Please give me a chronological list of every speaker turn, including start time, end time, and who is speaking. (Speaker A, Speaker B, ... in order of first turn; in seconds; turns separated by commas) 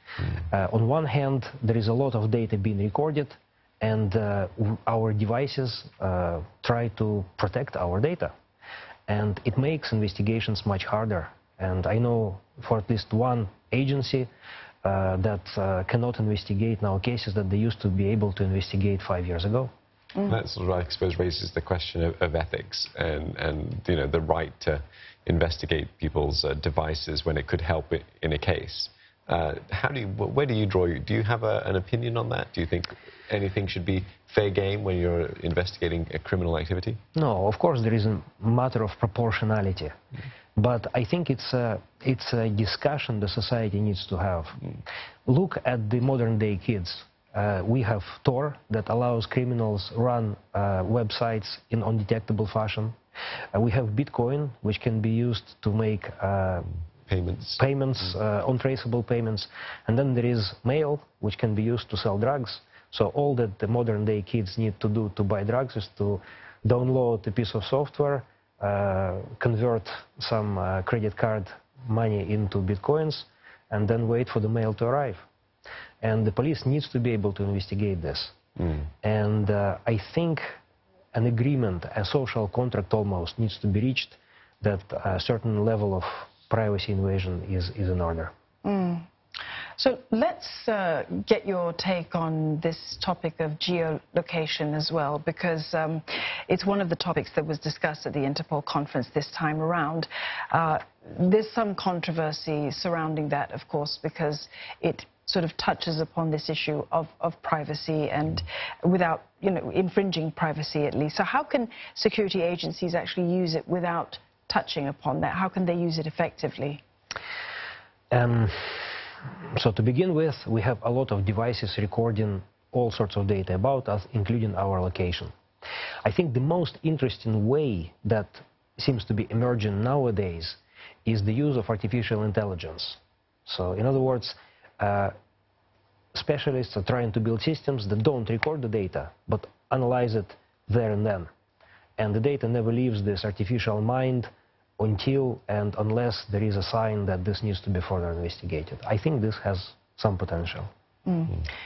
Speaker A: 0.4-8.3, Speaker A: 9.1-14.3, Speaker A: 14.8-19.7, Speaker B: 20.2-37.0, Speaker A: 37.1-40.0, Speaker A: 40.5-44.6, Speaker A: 45.2-53.0, Speaker A: 53.5-56.7, Speaker B: 57.1-57.6, Speaker A: 57.6-75.2, Speaker A: 76.0-78.4, Speaker A: 79.0-80.6, Speaker A: 81.1-88.3, Speaker C: 88.6-89.1, Speaker C: 89.8-116.8, Speaker A: 118.1-118.8, Speaker A: 119.5-125.3, Speaker A: 126.0-135.1, Speaker A: 136.1-141.3, Speaker A: 142.0-150.7, Speaker C: 151.1-151.5